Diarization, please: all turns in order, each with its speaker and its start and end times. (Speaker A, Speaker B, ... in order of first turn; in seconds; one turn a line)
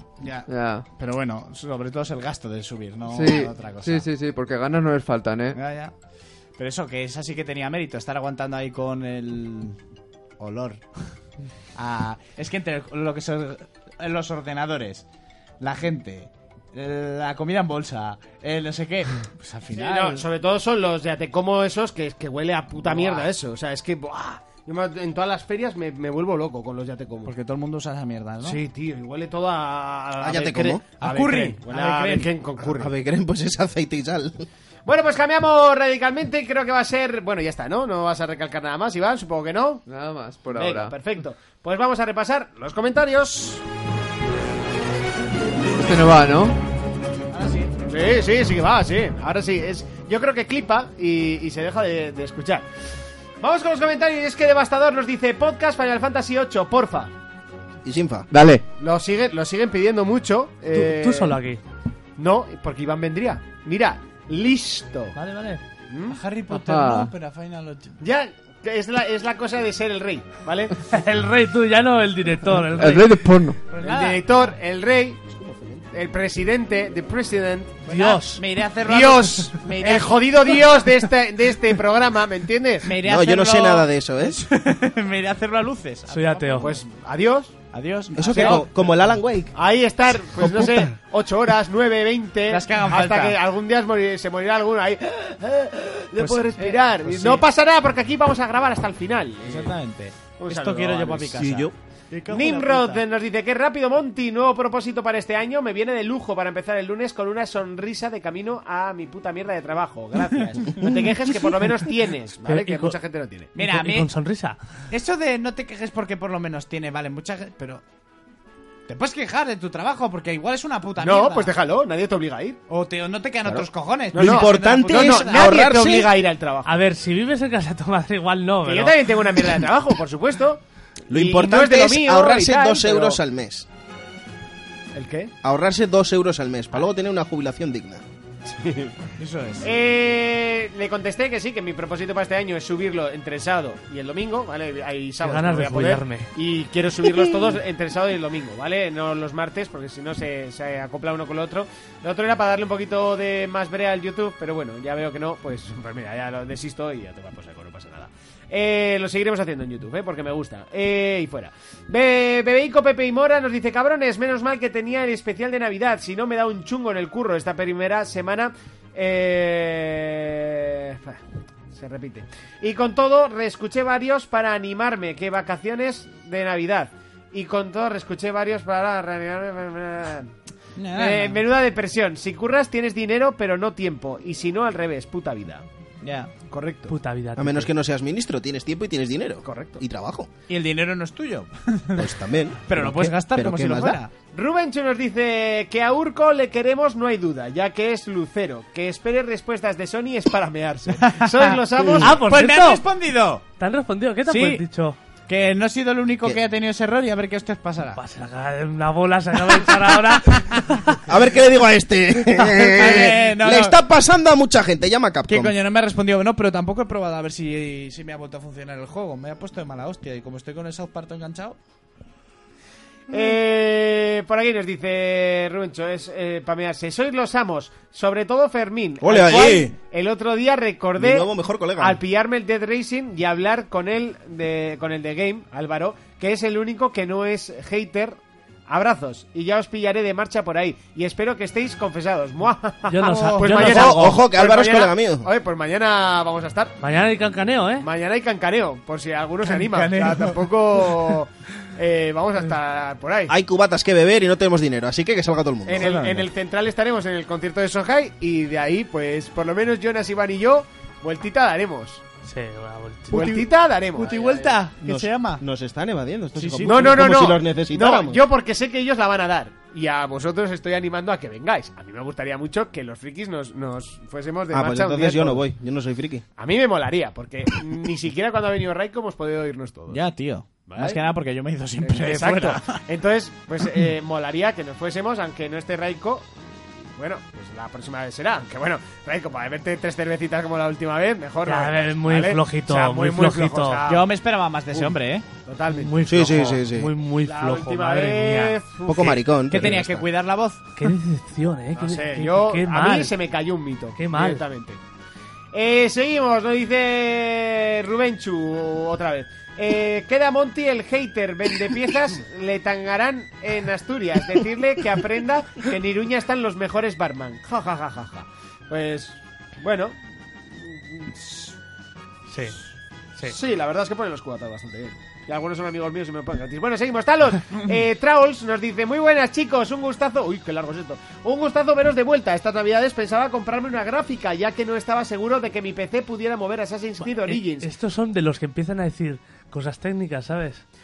Speaker A: 0.2-4.1
Speaker B: 0.5-0.9
Speaker B: 3.1-5.6
Speaker A: 5.5-5.9
Speaker A: 6.6-9.8
Speaker A: 10.4-11.1
Speaker A: 11.8-15.1
Speaker A: 15.6-20.2
Speaker C: 19.7-27.3
Speaker A: 22.9-23.3
Speaker A: 27.2-28.6
Speaker C: 28.4-32.9
Speaker D: 30.2-30.8
Speaker A: 31.0-32.3
Speaker D: 32.7-34.5
Speaker C: 34.9-39.8
Speaker B: 39.9-41.0
Speaker C: 40.5-43.6
Speaker B: 45.6-46.6
Speaker A: 47.3-47.7
Speaker C: 47.9-52.6
Speaker C: 53.4-57.1
Speaker D: 57.8-58.4
Speaker C: 58.8-61.4
Speaker E: 60.7-61.6
Speaker C: 62.2-65.2
Speaker E: 65.2-65.6
Speaker C: 65.9-66.2
Speaker A: 66.1-68.0
Speaker B: 66.5-67.1
Speaker C: 68.0-70.8
Speaker E: 70.9-73.2
Speaker B: 72.8-73.6
Speaker A: 73.7-74.3
Speaker C: 73.8-77.8
Speaker D: 75.4-75.8
Speaker A: 77.9-80.7
Speaker E: 77.9-78.4
Speaker C: 78.8-82.9
Speaker A: 82.8-86.8
Speaker D: 83.0-84.4
Speaker E: 86.1-86.7
Speaker C: 86.6-87.5
Speaker A: 87.7-88.7
Speaker D: 88.2-89.5
Speaker C: 88.3-88.6
Speaker C: 89.5-99.8
Speaker D: 90.3-90.9
Speaker A: 92.5-93.4
Speaker A: 96.2-97.5
Speaker A: 99.5-103.0
Speaker C: 100.4-101.5
Speaker D: 101.4-101.8
Speaker C: 102.3-113.5
Speaker E: 112.5-113.0
Speaker A: 113.5-114.1
Speaker E: 113.6-114.6
Speaker A: 114.9-117.8
Speaker A: 118.9-121.5
Speaker C: 121.0-122.6
Speaker A: 122.7-125.6
Speaker D: 123.5-126.2
Speaker C: 124.1-126.7
Speaker E: 126.7-129.1
Speaker C: 128.6-133.2
Speaker D: 131.1-133.7
Speaker C: 134.9-135.3
Speaker D: 135.4-138.0
Speaker C: 138.5-139.1
Speaker A: 139.2-139.7
Speaker C: 139.6-180.3
Speaker E: 145.2-146.3
Speaker A: 180.8-181.4
Speaker C: 180.9-185.7
Speaker A: 186.0-186.3
Speaker C: 186.5-186.9
Speaker E: 186.9-187.7
Speaker D: 187.4-190.3
Speaker C: 189.4-189.8
Speaker A: 190.5-194.1
Speaker D: 192.0-194.0
Speaker C: 194.3-202.1
Speaker A: 201.0-203.4
Speaker E: 202.0-202.8
Speaker E: 203.6-205.0
Speaker A: 204.3-204.6
Speaker A: 205.3-208.0
Speaker E: 208.0-211.0
Speaker A: 209.7-210.6
Speaker D: 211.1-215.6
Speaker A: 212.4-213.8
Speaker A: 215.3-221.6
Speaker C: 223.1-246.8
Speaker D: 229.0-229.7
Speaker D: 231.0-232.0
Speaker E: 242.9-244.2
Speaker A: 243.0-243.5
Speaker D: 243.5-245.3
Speaker E: 246.8-247.9
Speaker C: 247.8-253.3
Speaker A: 249.4-251.2
Speaker D: 253.3-256.0
Speaker C: 255.7-262.0
Speaker A: 255.8-256.3
Speaker E: 262.2-263.3
Speaker A: 263.1-263.4
Speaker C: 263.1-264.6
Speaker A: 264.0-265.4
Speaker D: 264.8-268.2
Speaker A: 266.4-267.0
Speaker C: 266.6-275.4
Speaker D: 274.5-276.2
Speaker C: 276.4-280.0
Speaker A: 279.9-282.8
Speaker C: 280.7-281.0
Speaker C: 281.8-294.1
Speaker E: 291.5-293.8
Speaker A: 293.9-295.3
Speaker C: 295.4-295.9
Speaker E: 295.7-298.6
Speaker D: 296.1-296.9
Speaker C: 297.2-299.2
Speaker D: 298.9-300.1
Speaker A: 299.5-300.6
Speaker E: 300.8-303.1
Speaker C: 301.7-304.8
Speaker E: 304.0-304.4
Speaker C: 305.5-320.0
Speaker C: 320.5-321.6
Speaker E: 322.3-322.6
Speaker C: 323.3-337.7
Speaker E: 337.0-340.6